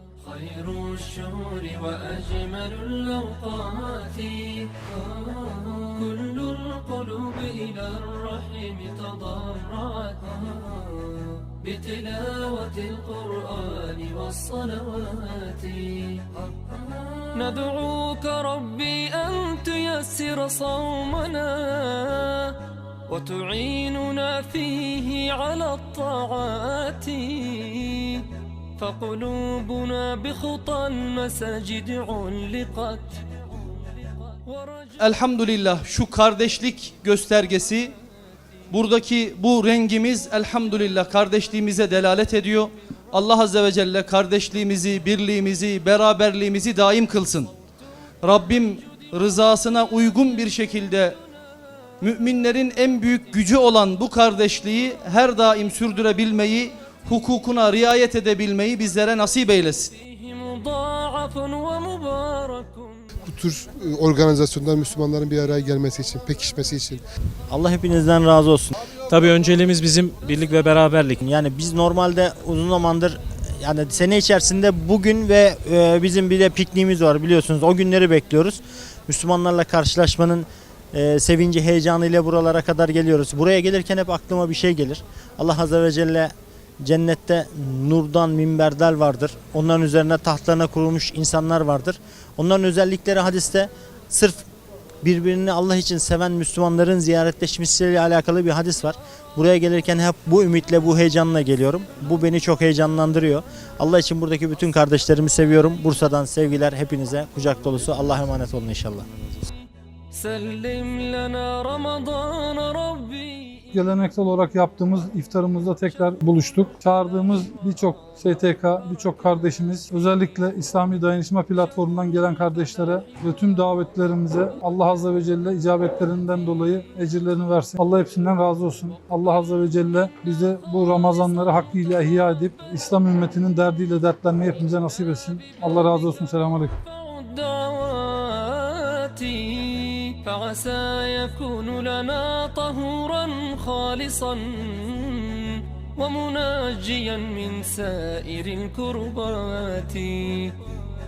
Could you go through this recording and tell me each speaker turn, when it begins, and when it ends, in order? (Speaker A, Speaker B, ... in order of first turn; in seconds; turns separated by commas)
Speaker A: 0.2-16.3, Speaker A: 17.2-28.3, Speaker A: 28.8-33.2, Speaker A: 34.3-35.0, Speaker B: 35.0-37.9, Speaker B: 38.7-47.5, Speaker B: 48.2-51.2, Speaker B: 52.0-59.9, Speaker A: 60.1-63.1, Speaker C: 63.2-67.0, Speaker D: 67.5-68.8, Speaker E: 69.0-71.2, Speaker D: 71.1-94.5, Speaker D: 95.0-109.1, Speaker A: 110.1-113.7, Speaker F: 113.7-136.8, Speaker A: 136.9-150.6